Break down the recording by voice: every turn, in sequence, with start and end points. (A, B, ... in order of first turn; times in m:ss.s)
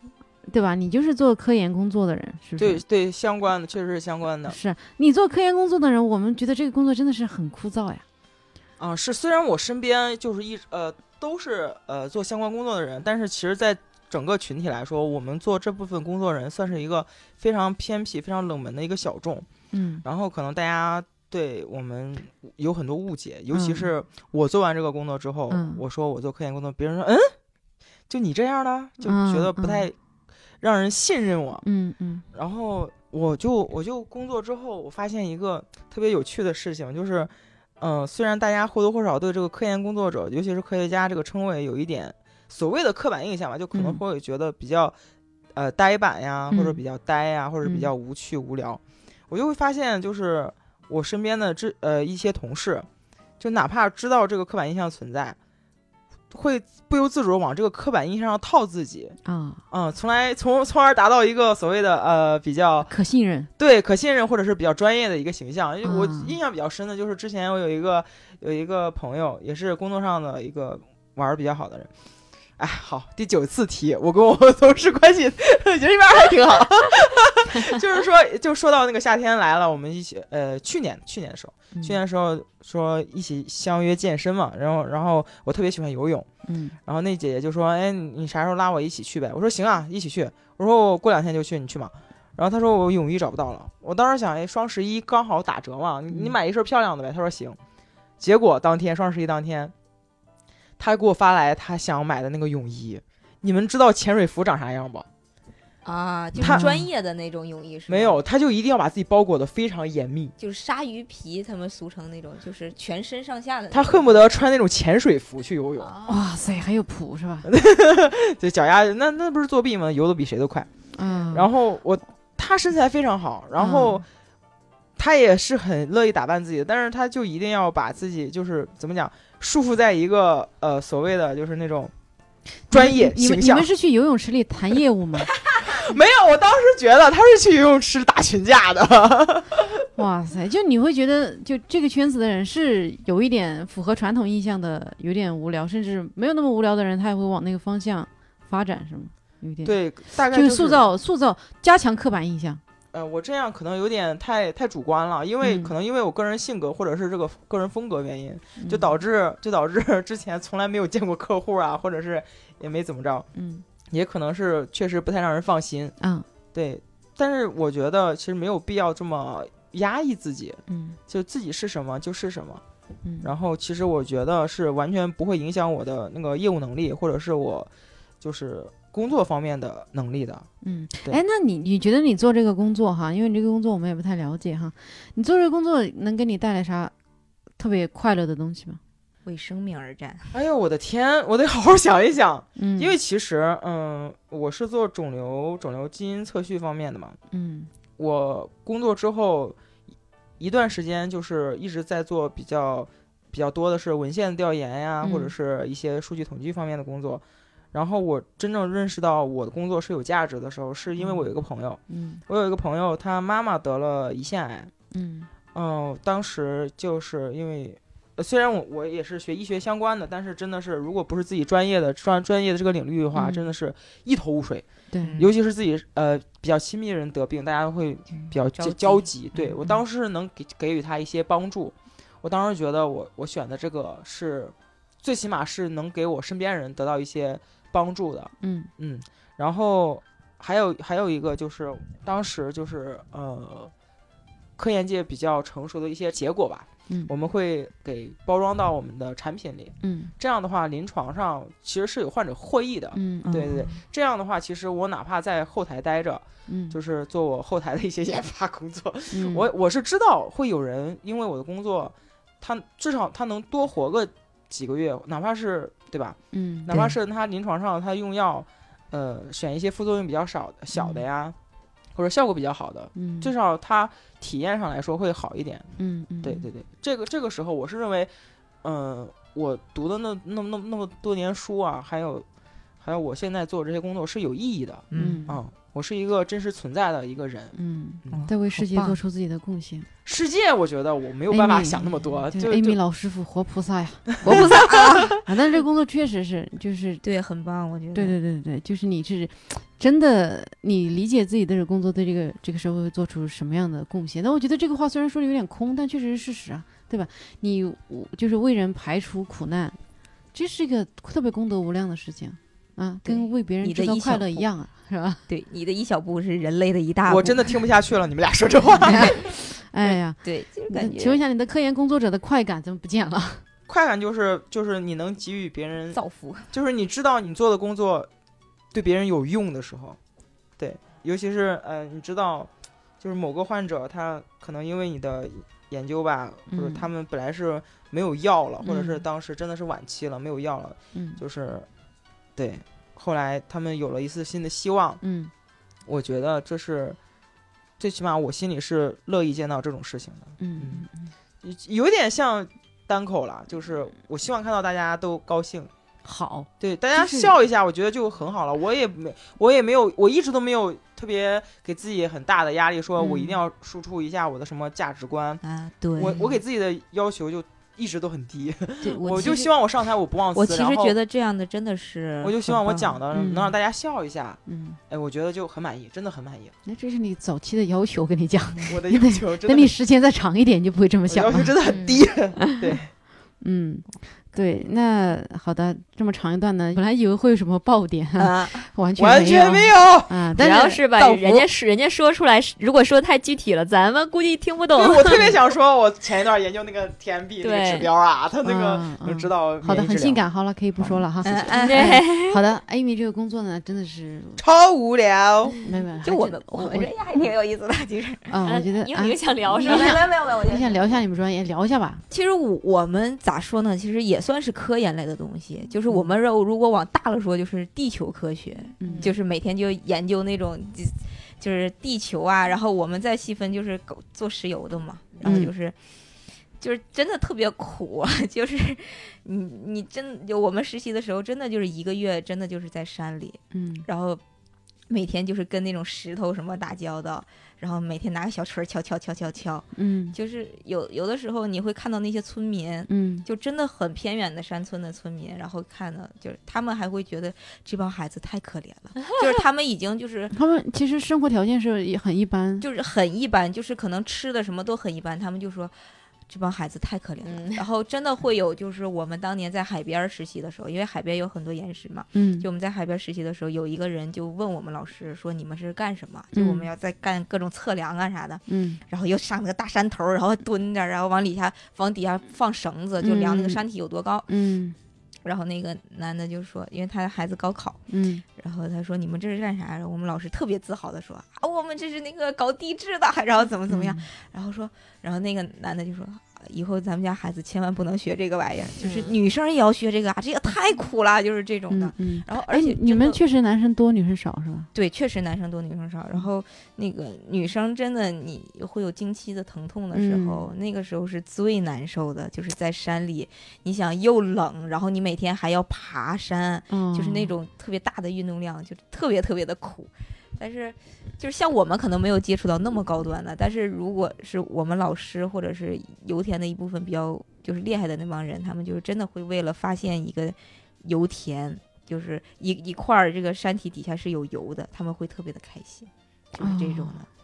0:00.4-0:02.8 A
0:02.6-0:04.6 B
0:04.5-0:08.0 A
0:08.8-0:19.5 B
0:19.7-0:20.0 A
0:20.0-0:27.3 B
0:23.5-0:23.9 A
0:25.5-0:25.8 A
0:28.1-0:29.9 B
0:29.0-0:29.9 A
0:30.6-0:31.6 B
0:31.6-0:32.2 A
0:32.3-0:44.9 B
0:43.7-0:44.0 A
0:45.5-0:52.9 B
0:46.5-0:46.8 A
0:47.6-0:47.9 A
0:53.4-0:55.4 B
0:56.3-0:59.2 B
0:59.2-0:59.6 A
0:59.7-1:02.9 B
1:02.9-1:03.5 A
1:03.6-1:11.9 B
1:05.8-1:06.3 A
1:12.6-1:26.3 B
1:26.4-1:26.8 A
1:26.8-1:37.6 B
1:36.1-1:36.4 A
1:38.2-1:39.7 B
1:40.8-1:45.0 B
1:45.8-1:48.2 C
1:46.4-1:46.7 B
1:46.4-1:46.9 A
1:47.9-1:50.3 B
1:50.4-1:54.2 C
1:53.7-1:55.9 B
1:55.8-1:56.2 C
1:56.0-1:57.5 A
1:57.4-2:00.7 B
2:00.9-2:01.5 A
2:01.3-2:04.0 B
2:03.6-2:04.0 A
2:05.0-2:11.9 B
2:12.7-2:13.7 B
2:12.7-2:15.3 A
2:15.6-2:19.8 B
2:20.0-2:32.6 A
2:29.6-2:30.8 B
2:32.9-2:43.3 B
2:35.4-2:35.7 A
2:38.6-2:38.9 A
2:43.3-2:43.6 A
2:43.9-2:45.9 B
2:46.0-2:46.2 A
2:46.5-2:52.6 B
2:50.7-2:51.0 A
2:53.0-2:53.3 A
2:53.2-3:00.5 B
3:00.6-3:06.9 A
3:07.6-3:08.8 A
3:09.2-3:10.3 C
3:10.3-3:17.2 B
3:12.6-3:13.0 A
3:17.3-3:17.7 A
3:18.0-3:19.6 B
3:20.4-3:34.7 B
3:25.0-3:25.3 A
3:31.0-3:31.2 A
3:31.9-3:32.2 A
3:34.9-3:35.3 A
3:35.5-3:44.7 B
3:43.1-3:43.5 A
3:44.9-3:45.3 A
3:45.0-3:45.3 C
3:45.2-4:03.7 B
3:48.5-3:49.1 C
3:49.4-3:49.8 A
3:58.4-3:58.7 A
4:04.6-4:31.4 B
4:09.8-4:10.1 A
4:12.9-4:13.5 A
4:13.2-4:13.8 C
4:16.5-4:16.8 A
4:19.1-4:19.5 A
4:26.3-4:27.0 A
4:30.7-4:31.0 A
4:31.9-4:35.7 B
4:33.0-4:33.3 A
4:35.8-4:36.5 A
4:36.2-4:38.1 B
4:38.6-4:42.2 B
4:42.8-4:47.5 B
4:44.9-4:45.4 C
4:45.0-4:45.4 A
4:47.5-4:49.9 A
4:48.1-4:49.0 C
4:50.0-4:52.8 B
4:51.3-4:54.6 A
4:54.2-4:55.1 B
4:54.2-4:55.2 C
4:55.1-4:57.0 A
4:57.0-4:58.2 C
4:57.9-5:09.8 A
5:10.3-5:15.2 A
5:13.0-5:14.4 C
5:15.3-5:17.6 C
5:17.1-5:19.2 B
5:18.8-5:23.4 A
5:19.8-5:21.2 C
5:23.7-5:26.0 B
5:25.9-5:26.5 C
5:26.5-5:28.1 B
5:28.7-5:30.0 B
5:30.6-5:41.7 B
5:36.5-5:36.9 A
5:38.6-5:39.0 A
5:40.9-5:41.2 A
5:42.4-5:45.0 B
5:45.0-5:45.3 A
5:45.9-5:47.0 B
5:47.8-5:50.8 B
5:50.4-5:51.1 A
5:51.4-5:55.7 B
5:56.0-5:57.3 A
5:56.6-6:05.4 B
6:03.0-6:03.4 A
6:05.4-6:06.4 C
6:06.0-6:10.9 B
6:08.8-6:09.6 C
6:10.3-6:12.4 C
6:12.2-6:16.5 B
6:12.4-6:13.5 A
6:14.5-6:14.8 A
6:16.6-6:21.5 A
6:18.7-6:19.7 B
6:21.1-6:22.9 B
6:21.7-6:22.0 D
6:23.4-6:30.8 A
6:28.2-6:28.7 C
6:29.0-6:30.3 B
6:30.4-6:35.2 D
6:30.7-6:31.4 C
6:31.1-6:31.4 B
6:34.7-6:40.2 B
6:37.4-6:37.9 D
6:38.4-6:44.4 A
6:41.2-6:42.2 C
6:41.5-6:42.4 D
6:44.4-6:45.6 B
6:45.6-6:46.9 A
6:46.0-6:48.3 C
6:48.3-6:52.0 A
6:48.4-6:50.1 D
6:49.6-6:50.8 C
6:52.1-7:06.0 C
6:58.8-6:59.1 A
6:58.8-6:59.1 D
7:05.2-7:05.5 A
7:06.6-7:14.2 C
7:13.5-7:13.9 A
7:14.9-7:30.3 C
7:19.8-7:20.2 A
7:22.9-7:23.2 A
7:30.3-7:32.6 A
7:32.6-7:35.7 C
7:36.3-7:54.4 C
7:37.2-7:37.6 D
7:42.1-7:42.5 A
7:46.3-7:46.7 A
7:48.5-7:48.8 A
7:53.0-7:53.6 A
7:54.3-7:54.8 A
7:55.2-7:57.8 C
7:57.9-7:58.2 A
7:58.4-8:13.2 C
8:03.7-8:04.0 A
8:08.8-8:09.1 D
8:11.7-8:14.7 A
8:14.7-8:47.1 C
8:19.9-8:20.5 A
8:26.7-8:27.3 A
8:46.4-8:47.0 A